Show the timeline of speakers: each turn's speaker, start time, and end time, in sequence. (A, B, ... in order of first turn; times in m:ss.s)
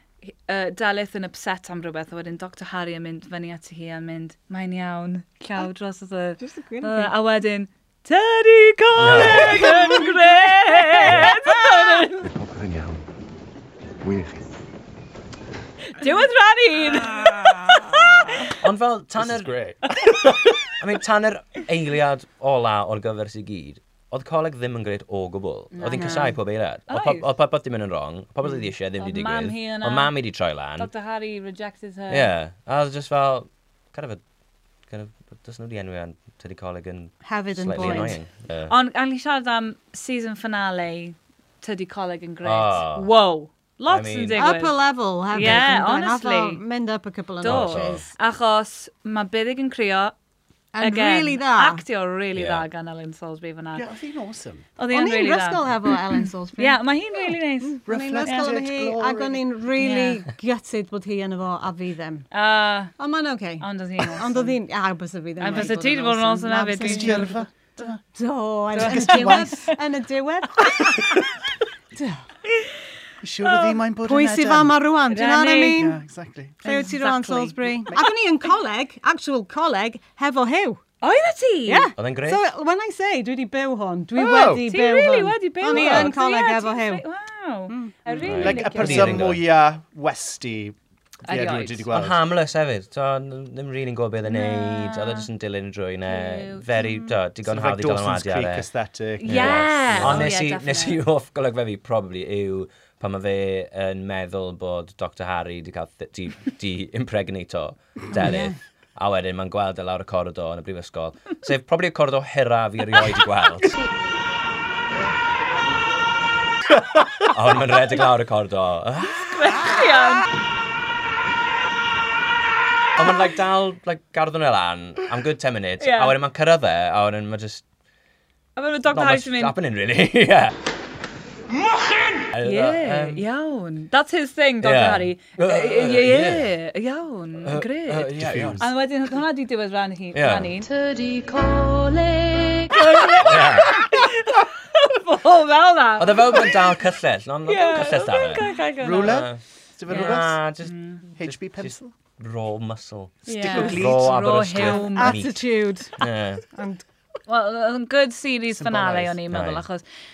0:00.3-0:12.3 A
0:06.4-0:07.2 B
0:09.0-0:09.8 C
0:09.3-0:12.3 B
0:15.9-0:18.6 A
0:18.6-0:19.5 C
0:19.2-0:20.5 D
0:19.9-0:20.2 A
0:20.8-0:30.9 C
0:25.7-0:26.4 A
0:25.9-0:26.3 B
0:26.9-0:27.2 A
0:29.0-0:30.1 A
0:30.8-0:32.3 A
0:32.1-0:34.2 C
0:34.9-0:38.7 C
0:37.2-0:38.2 B
0:38.7-0:44.8 A
0:42.4-0:43.1 C
0:43.9-0:44.4 C
0:44.3-0:48.1 B
0:45.3-0:46.6 A
0:45.4-0:45.6 C
0:47.4-0:50.1 A
0:47.4-0:48.1 C
0:50.7-0:51.8 B
0:50.8-0:53.8 A
0:52.4-0:52.6 C
0:53.7-0:54.6 D
0:54.8-0:58.5 A
0:54.9-1:02.3 B
0:57.9-0:59.4 D
0:59.8-1:00.2 A
1:02.3-1:02.9 A
1:03.0-1:07.4 B
1:03.6-1:04.5 A
1:05.4-1:07.4 A
1:06.8-1:08.0 D
1:08.1-1:11.2 B
1:08.7-1:09.8 A
1:08.8-1:09.5 D
1:10.6-1:11.2 A
1:11.9-1:12.2 B
1:13.2-1:14.8 D
1:13.5-1:13.7 A
1:14.0-1:16.0 B
1:15.1-1:15.9 A
1:15.7-1:16.6 D
1:16.6-1:17.9 A
1:16.6-1:20.8 B
1:21.0-1:21.9 A
1:21.6-1:27.0 B
1:22.0-1:22.4 C
1:24.1-1:24.6 D
1:24.5-1:29.3 A
1:25.7-1:26.1 C
1:27.7-1:28.3 B
1:28.3-1:29.4 C
1:28.3-1:32.2 D
1:31.3-1:31.8 A
1:31.9-1:38.7 C
1:34.3-1:35.3 A
1:36.1-1:36.8 A
1:36.8-1:37.1 B
1:37.4-1:40.3 D
1:39.2-1:41.0 A
1:39.2-1:53.7 C
1:48.1-1:48.6 B
1:57.3-1:59.6 C
1:59.3-2:00.3 A
2:03.0-2:07.6 C
2:05.8-2:06.1 A
2:08.6-2:09.5 A
2:08.9-2:10.5 C
2:12.3-2:13.2 C
2:12.4-2:20.7 A
2:14.6-2:16.5 C
2:17.4-2:18.6 C
2:18.2-2:18.7 D
2:20.1-2:20.5 C
2:20.6-2:22.8 E
2:22.7-2:26.6 A
2:23.2-2:23.8 C
2:26.0-2:35.4 C
2:27.5-2:29.2 A
2:28.8-2:30.4 D
2:29.9-2:31.0 A
2:31.2-2:31.9 D
2:33.2-2:35.2 A
2:33.4-2:34.7 D
2:33.4-2:33.9 B
2:34.6-2:36.8 B
2:36.0-2:36.4 C
2:37.3-2:39.8 A
2:38.6-2:39.1 D
2:39.0-2:39.6 C